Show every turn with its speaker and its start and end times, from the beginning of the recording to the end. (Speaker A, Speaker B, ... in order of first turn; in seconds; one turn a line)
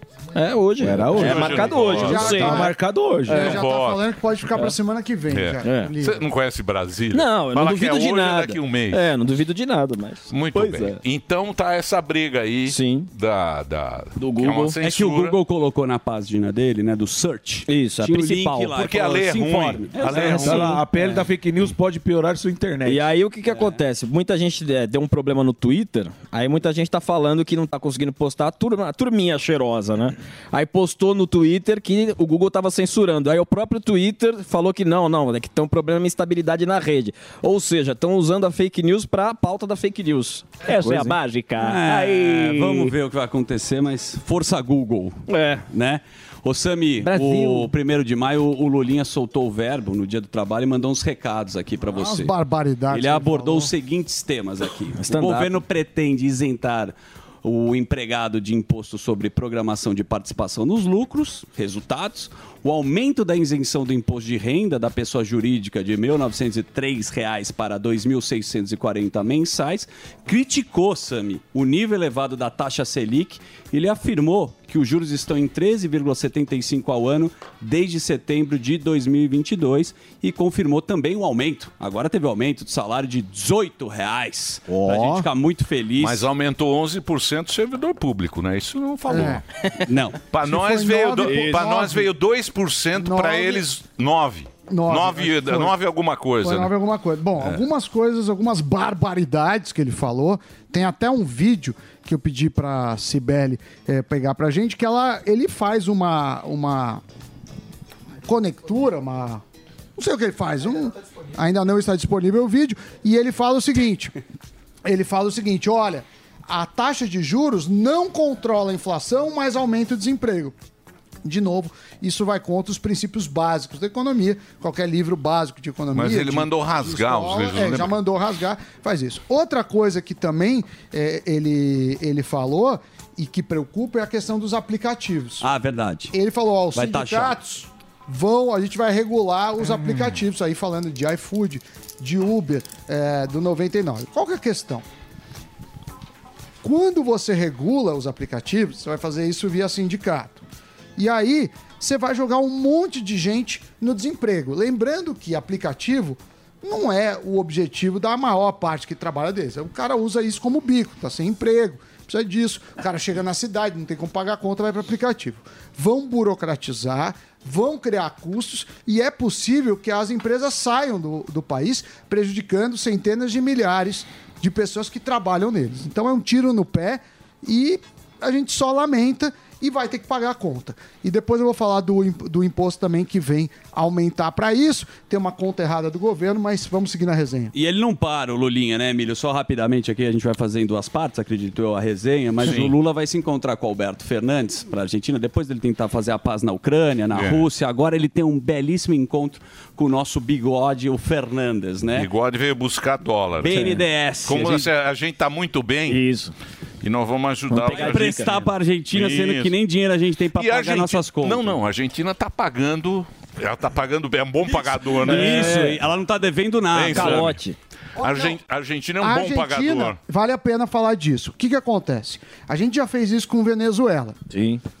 Speaker A: 0.3-2.7
Speaker B: 0.8-3.5
Speaker C: 1.1-2.6
Speaker D: 1.9-2.7
Speaker D: 3.2-6.3
Speaker A: 3.3-3.5
Speaker C: 3.3-4.0
Speaker C: 5.3-9.1
Speaker A: 5.6-5.9
Speaker A: 7.1-11.0
Speaker C: 10.3-15.4
Speaker A: 12.7-13.1
Speaker A: 14.2-14.7
Speaker E: 14.8-21.2
Speaker A: 17.7-18.8
Speaker C: 18.8-20.7
Speaker B: 20.0-23.0
Speaker A: 22.8-42.9
Speaker E: 23.5-23.8
Speaker E: 41.6-52.3
Speaker A: 45.3-45.6
Speaker A: 47.0-47.7
Speaker D: 51.9-53.7
Speaker E: 52.9-86.2
Speaker A: 55.0-55.5
Speaker B: 84.7-85.2
Speaker C: 86.0-89.4
Speaker D: 89.1-89.4
Speaker E: 89.9-90.2
Speaker C: 90.3-96.8
Speaker D: 90.4-92.1
Speaker E: 91.3-91.6
Speaker D: 92.9-93.6
Speaker D: 94.7-95.7
Speaker D: 96.4-107.0
Speaker D: 108.2-109.4
Speaker D: 110.0-114.1
Speaker D: 114.8-120.6
Speaker D: 121.2-135.4
Speaker C: 125.9-127.9
Speaker E: 135.4-136.1
Speaker D: 136.1-144.8
Speaker E: 136.7-137.4
Speaker D: 146.6-150.4
Speaker D: 151.0-187.5
Speaker E: 187.5-202.1
Speaker C: 192.4-192.7
Speaker C: 197.1-197.4
Speaker C: 201.9-206.0
Speaker E: 203.4-204.7
Speaker A: 205.9-206.3
Speaker C: 206.8-208.4
Speaker A: 207.5-208.4
Speaker E: 207.7-211.6
Speaker C: 208.9-209.5
Speaker C: 210.3-215.6
Speaker E: 215.0-217.3
Speaker A: 215.1-215.7
Speaker C: 216.7-217.4
Speaker A: 216.9-217.6
Speaker D: 218.0-218.4
Speaker C: 218.0-220.0
Speaker D: 219.0-224.2
Speaker A: 224.3-224.6